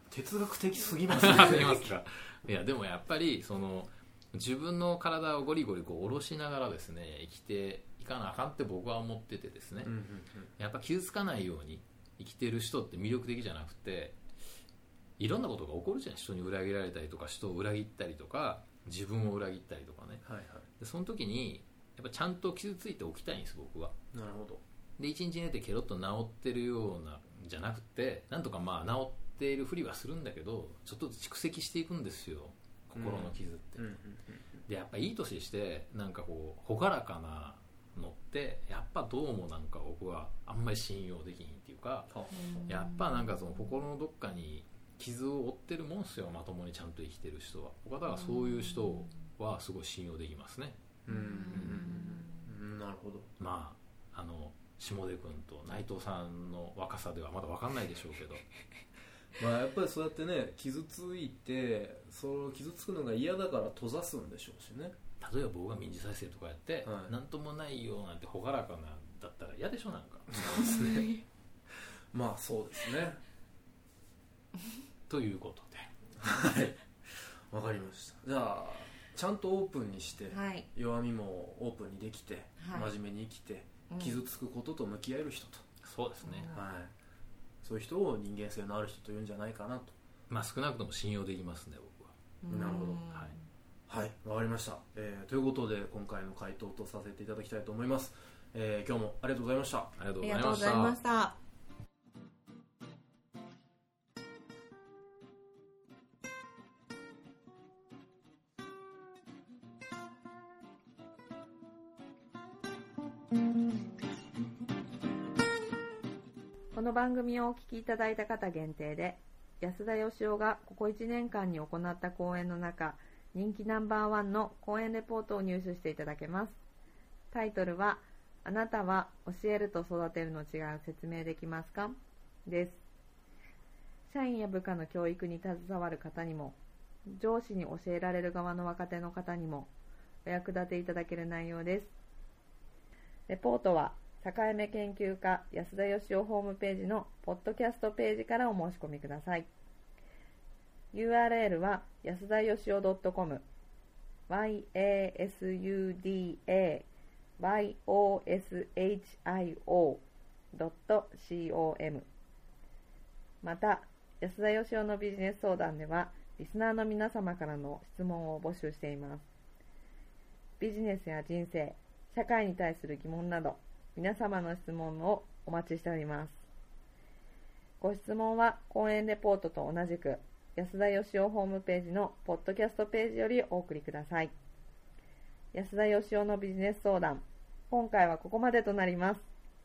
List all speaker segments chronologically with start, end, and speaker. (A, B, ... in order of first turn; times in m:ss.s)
0:00.1-0:01.9 A
0:01.1-0:09.9 B
0:09.8-0:10.5 A
0:10.6-0:14.2 B
0:15.2-0:20.2 B
0:20.2-0:20.7 A
0:20.8-0:23.9 B
0:24.1-0:24.6 A
0:25.0-0:34.0 B
0:33.0-0:34.6 A
0:34.7-0:42.1 B
0:42.1-0:42.7 A
0:42.3-0:43.3 C
0:42.7-0:50.8 B
0:48.1-0:49.0 C
0:51.0-0:53.3 A
0:51.1-0:52.5 C
0:51.5-0:51.9 B
0:53.4-0:58.4 B
0:59.4-1:04.9 A
1:05.2-1:11.1 B
1:06.8-1:07.1 A
1:10.6-1:11.0 A
1:10.7-1:11.0 C
1:12.1-1:13.2 A
1:15.1-1:15.9 B
1:16.2-1:25.6 A
1:20.3-1:20.7 C
1:22.6-1:22.9 C
1:23.9-1:24.2 C
1:25.8-1:26.5 B
1:26.2-1:26.6 C
1:26.5-1:26.9 A
1:27.6-1:29.9 A
1:30.3-1:32.1 B
1:32.4-1:33.4 C
1:32.5-1:33.1 A
1:33.0-1:33.3 B
1:33.9-1:39.9 A
1:40.0-1:41.0 B
1:40.2-1:41.3 C
1:56.7-2:06.6 C
2:07.3-2:12.8 C
2:14.1-2:16.6 C
2:17.1-2:19.7 C
2:20.2-2:21.9 C
2:23.3-2:29.5 C
2:30.9-2:33.4 C
2:34.3-2:42.1 C
2:43.4-2:49.2 C
2:50.6-2:56.4 C
2:57.8-3:04.3 C
3:05.5-3:09.2 C